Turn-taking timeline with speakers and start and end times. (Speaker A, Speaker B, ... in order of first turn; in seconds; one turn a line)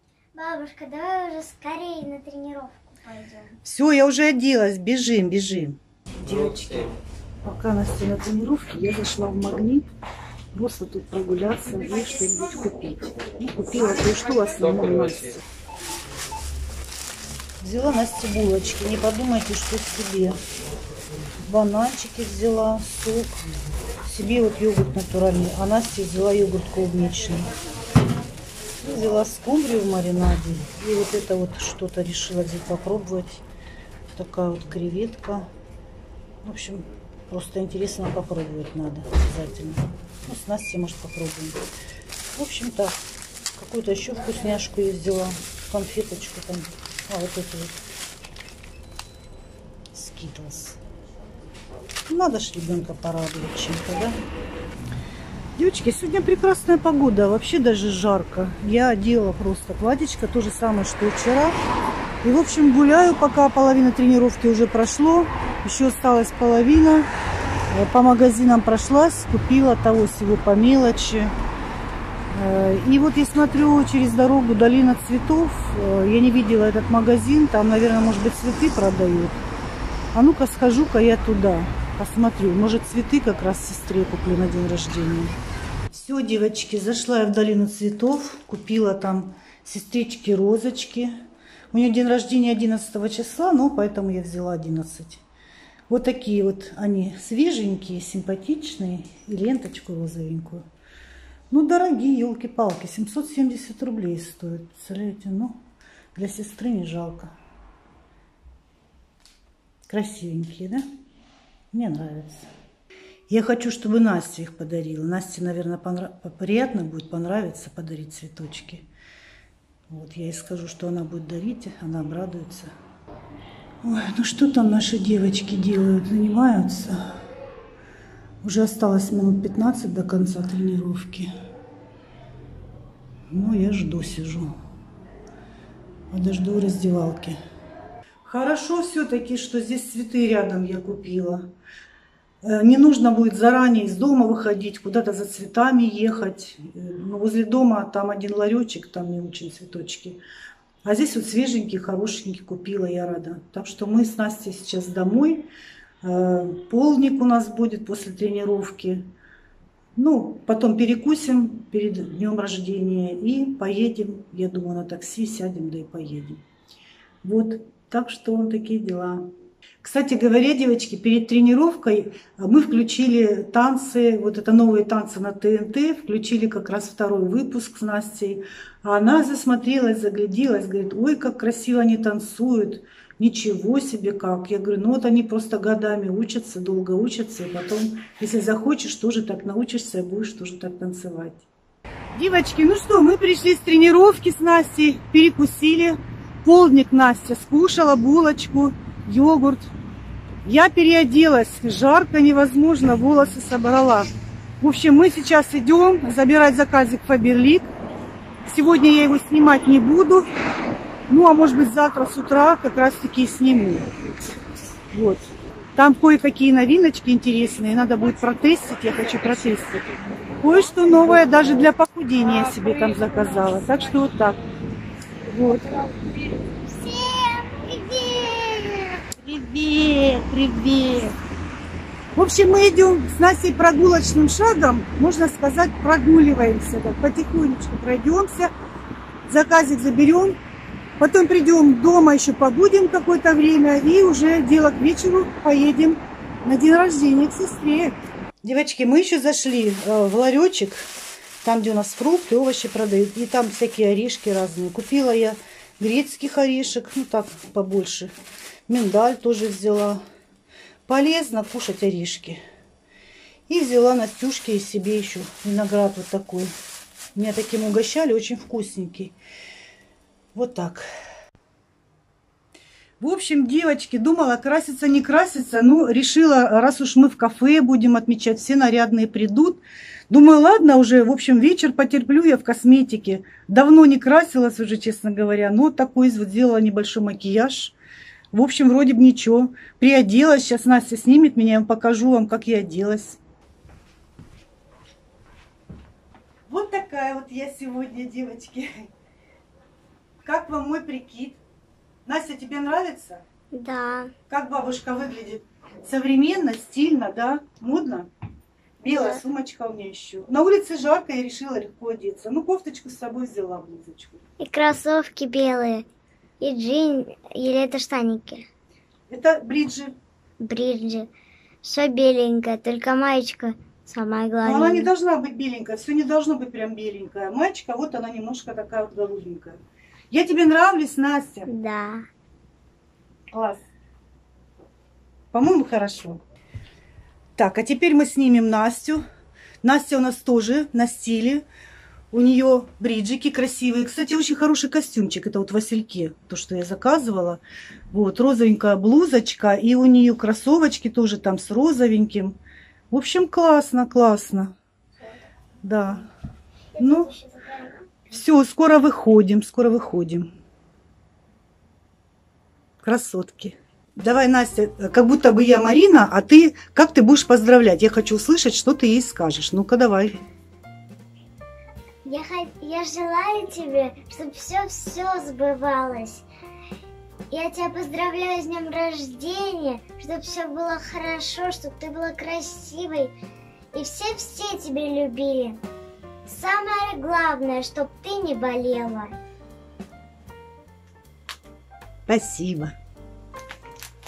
Speaker A: 0.3-3.6
Speaker B: 3.6-6.9
Speaker B: 7.5-9.9
Speaker B: 10.5-15.4
Speaker B: 17.6-20.4
Speaker B: 21.5-23.4
Speaker B: 24.1-27.5
Speaker B: 28.8-33.4
Speaker B: 34.1-35.5
Speaker B: 36.4-41.6
Speaker B: 42.4-43.0
Speaker B: 43.6-47.8
Speaker B: 49.9-50.8
Speaker B: 52.1-54.2
Speaker B: 55.6-61.6
Speaker B: 62.2-67.1
Speaker B: 67.7-71.3
Speaker B: 72.3-79.4
Speaker B: 80.1-85.4
Speaker B: 85.9-91.1
Speaker B: 91.7-95.2
Speaker B: 95.9-100.6
Speaker B: 101.5-105.6
Speaker B: 106.2-107.3
Speaker B: 109.9-110.8
Speaker B: 111.7-112.5
Speaker B: 113.3-118.9
Speaker B: 119.9-122.7
Speaker B: 123.8-127.1
Speaker B: 128.4-131.3
Speaker B: 133.3-134.6
Speaker B: 136.1-137.4
Speaker B: 138.3-141.5
Speaker B: 142.4-150.2
Speaker B: 150.8-155.5
Speaker B: 156.0-159.1
Speaker B: 160.0-166.4
Speaker B: 167.2-169.3
Speaker B: 169.8-191.5
Speaker B: 192.2-199.7
Speaker B: 200.4-204.1
Speaker B: 204.6-207.7
Speaker B: 208.5-210.3
Speaker B: 211.1-213.9
Speaker B: 214.9-215.2
Speaker B: 215.8-219.8
Speaker B: 220.4-224.4
Speaker B: 225.3-225.9
Speaker A: 226.6-229.2
Speaker B: 229.2-231.1
Speaker B: 232.2-238.5
Speaker B: 239.3-240.4
Speaker B: 241.0-250.9
Speaker B: 251.4-258.1
Speaker B: 258.7-260.0
Speaker B: 260.9-262.4
Speaker B: 263.5-266.5
Speaker B: 267.1-269.1
Speaker B: 270.4-270.9
Speaker B: 273.0-287.8
Speaker B: 288.3-293.2
Speaker B: 296.5-298.9
Speaker B: 300.2-301.4
Speaker B: 302.1-303.2
Speaker A: 303.5-304.1
Speaker B: 304.3-308.1
Speaker B: 308.8-314.2
Speaker A: 314.4-315.9
Speaker A: 316.4-318.5
Speaker B: 319.1-319.9
Speaker A: 320.4-321.1
Speaker A: 321.6-324.9
Speaker B: 324.4-329.6
Speaker B: 330.1-331.5
Speaker A: 331.5-332.1
Speaker B: 333.3-333.6
Speaker B: 335.3-336.2
Speaker B: 337.4-339.0
Speaker B: 339.6-341.4
Speaker B: 342.1-352.4
Speaker B: 352.9-354.6
Speaker B: 355.6-356.1
Speaker A: 356.8-358.1
Speaker B: 356.8-357.1
Speaker B: 358.1-360.3
Speaker B: 362.8-370.2
Speaker A: 372.1-376.2
Speaker A: 377.3-383.1
Speaker A: 383.7-385.6
Speaker A: 386.3-389.2
Speaker B: 392.1-392.8